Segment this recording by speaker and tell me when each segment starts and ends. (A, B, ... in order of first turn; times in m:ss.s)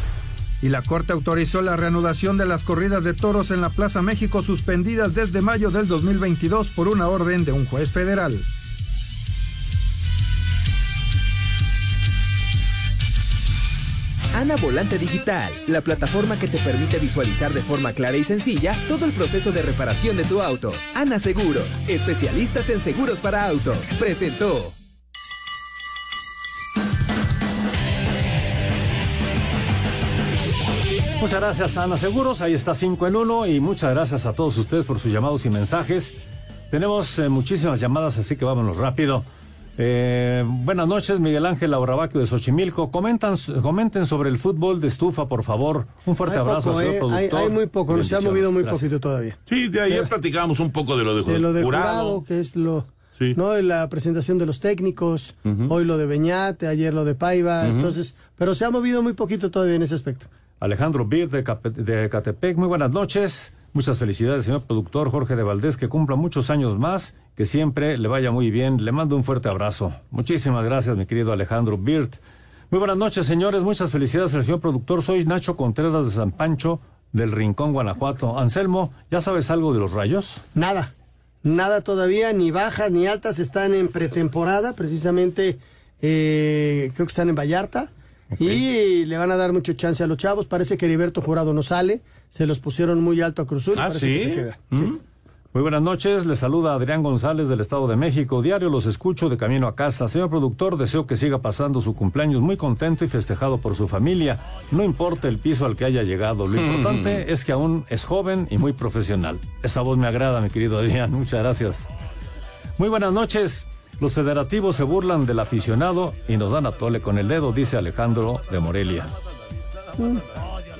0:00.6-0:08.4 A
0:14.3-0:24.7 B
0:31.2-0:36.1 C
0:36.7-0:39.2 C
0:39.8-0:48.9 C
0:46.2-0:49.4 D
0:49.5-0:52.2 E
0:51.2-1:00.3 D
0:55.5-0:55.7 E
0:57.6-0:57.9 E
1:00.6-1:12.2 C
1:12.7-1:20.4 C
1:20.5-1:20.9 D
1:21.4-1:34.9 D
1:33.7-1:35.0 E
1:35.5-1:51.9 C
1:46.6-1:47.2 E
1:52.8-1:59.1 C
2:00.0-2:00.2 D